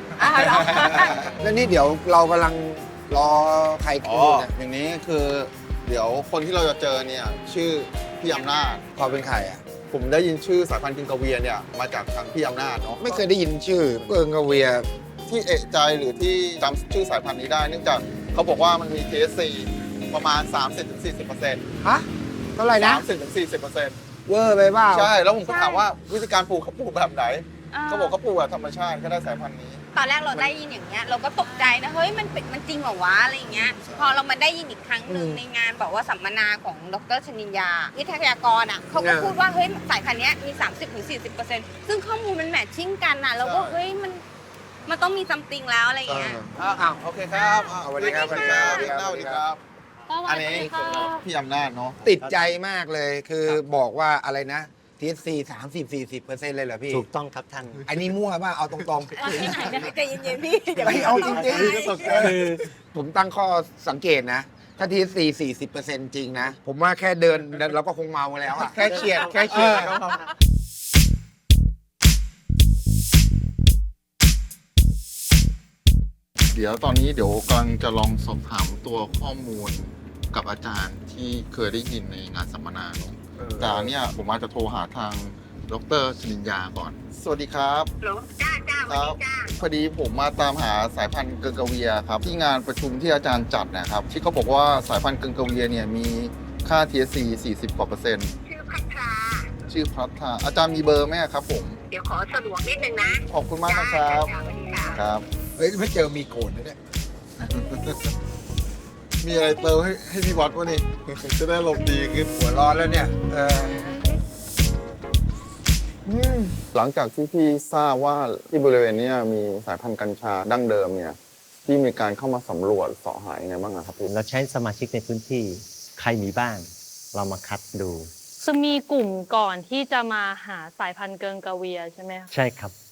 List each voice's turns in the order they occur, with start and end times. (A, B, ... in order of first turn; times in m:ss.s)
0:00.2-0:01.3 A
0:00.2-0:04.5 B
0:00.6-0:01.1 C
0:04.0-0:08.8 C
0:08.3-0:08.8 D
0:09.0-0:09.6 B
0:09.9-0:13.2 C
0:13.0-0:14.9 B
0:15.3-0:21.6 C
0:21.8-0:23.1 B
0:22.7-0:24.0 C
0:24.3-0:25.1 B
0:24.9-0:29.8 C
0:25.4-0:25.9 A
0:27.7-0:28.2 A
0:29.9-0:44.2 A
0:33.6-0:34.2 C
0:35.1-0:35.4 B
0:38.9-0:39.4 B
0:43.4-0:43.8 C
0:44.8-0:46.4 A
0:46.1-0:49.6 C
0:46.2-0:47.0 B
0:47.4-0:48.9 A
0:47.6-0:49.5 B
0:50.1-0:51.2 D
0:50.3-0:52.0 C
0:52.0-0:57.0 B
0:52.2-0:52.5 E
0:56.9-0:57.9 E
0:57.8-0:59.9 B
0:59.2-1:00.0 D
0:59.6-1:02.2 A
1:00.8-1:10.0 B
1:01.3-1:02.3 C
1:08.9-1:10.2 C
1:16.5-1:27.9 C
1:23.4-1:23.9 B
1:28.0-1:29.5 F
1:28.8-1:38.3 C
1:38.5-1:39.5 F
1:39.7-1:41.8 C
1:41.9-1:45.0 F
1:43.3-1:44.3 C
1:44.9-1:45.2 C
1:45.6-1:46.8 B
1:47.4-1:48.0 C
1:49.2-1:52.3 C
1:52.3-1:54.0 B
1:53.5-1:54.2 A
1:56.1-1:56.6 B
1:56.7-2:04.1 C
2:04.1-2:08.1 E
2:08.4-2:12.3 D
2:12.3-2:12.8 E